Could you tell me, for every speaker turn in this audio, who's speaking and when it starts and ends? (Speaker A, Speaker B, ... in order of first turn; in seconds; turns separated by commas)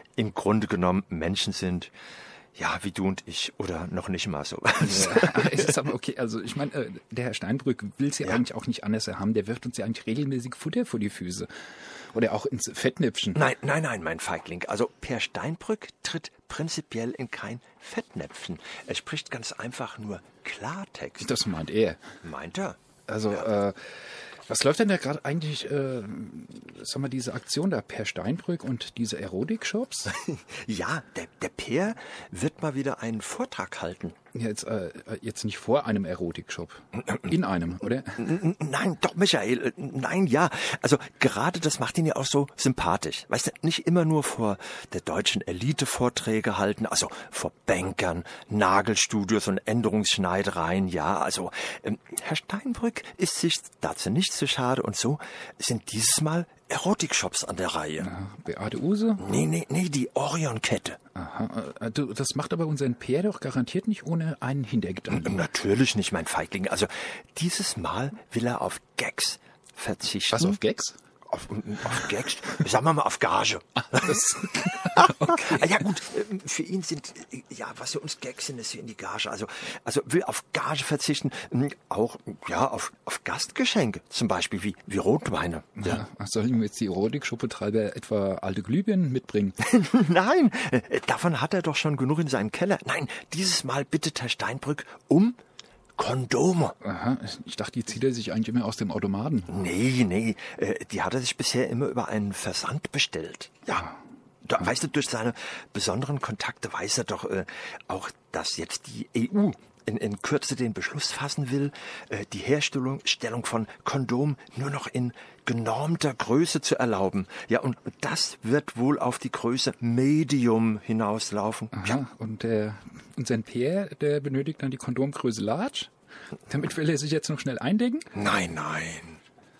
Speaker A: 0.2-1.9, Speaker A: 2.6-5.8, Speaker B: 4.8-13.4, Speaker A: 13.3-21.3, Speaker B: 21.2-22.1, Speaker A: 22.2-22.8, Speaker B: 23.1-30.1, Speaker A: 30.1-34.2, Speaker B: 34.3-38.3, Speaker A: 38.2-58.1, Speaker B: 58.0-59.4, Speaker A: 59.2-61.0, Speaker B: 61.1-65.5, Speaker A: 65.1-70.6, Speaker B: 70.3-71.0, Speaker A: 71.3-86.0, Speaker B: 74.0-75.6, Speaker B: 85.8-89.6, Speaker A: 89.6-95.4, Speaker A: 96.0-96.8, Speaker B: 96.8-99.6, Speaker A: 99.5-103.9, Speaker A: 104.5-122.0, Speaker B: 121.7-128.1, Speaker A: 128.1-129.2